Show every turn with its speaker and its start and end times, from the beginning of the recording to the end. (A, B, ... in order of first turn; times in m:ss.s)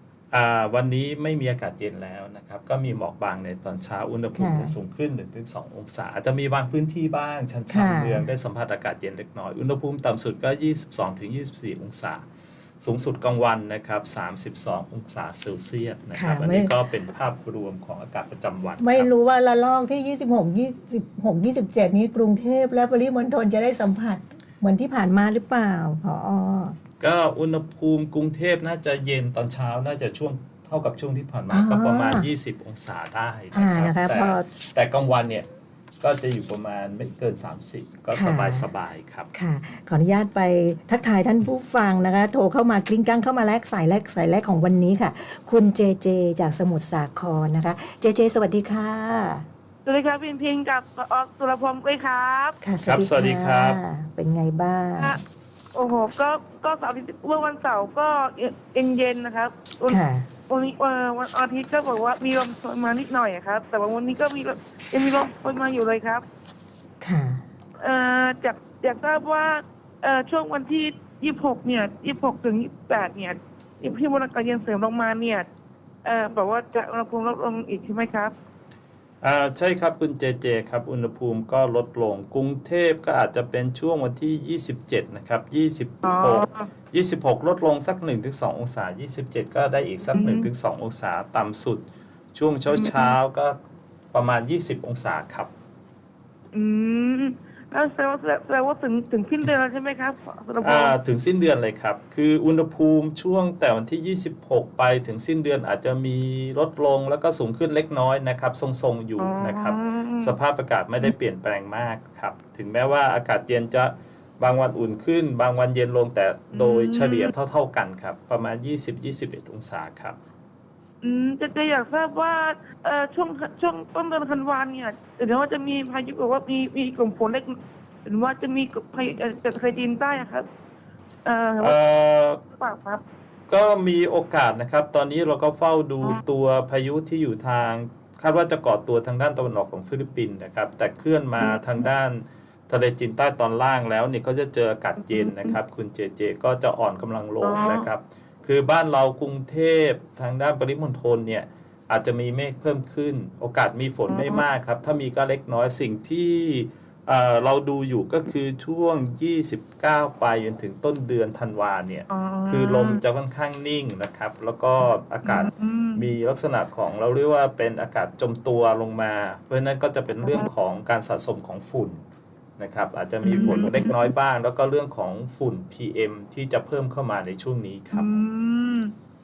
0:00.3-0:12.2 A
0:04.4-0:04.7 B
0:07.7-0:08.3 B
0:12.8-0:19.1 A
0:16.2-0:16.7 B
0:18.8-0:26.8 B
0:27.0-0:35.5 A
0:31.5-0:32.3 B
0:33.5-0:34.5 B
0:36.0-0:39.3 A
0:38.1-0:38.7 B
0:39.3-0:49.5 B
0:49.9-0:52.6 C
0:52.6-0:55.2 B
0:52.8-0:53.8 A
0:55.7-1:06.2 C
0:59.9-1:00.3 B
1:07.0-1:07.4 B
1:07.8-1:15.5 C
1:16.0-1:18.3 C
1:19.2-1:33.6 A
1:26.0-1:26.7 C
1:30.1-1:30.5 C
1:32.7-1:33.1 C
1:34.1-1:35.5 A
1:36.5-1:41.0 C
1:40.6-2:00.2 A
1:49.2-1:50.3 C
1:56.5-1:57.3 C
2:01.0-2:10.5 C
2:11.2-2:11.8 C
2:11.6-2:12.4 A
2:12.5-2:13.0 C
2:13.5-2:52.0 A
2:25.0-2:25.6 C
2:27.4-2:27.9 C
2:34.1-2:34.4 C
2:42.1-2:43.0 C
2:45.2-2:46.0 C
2:52.6-2:58.1 A
2:53.2-2:54.0 C
2:57.9-2:58.9 C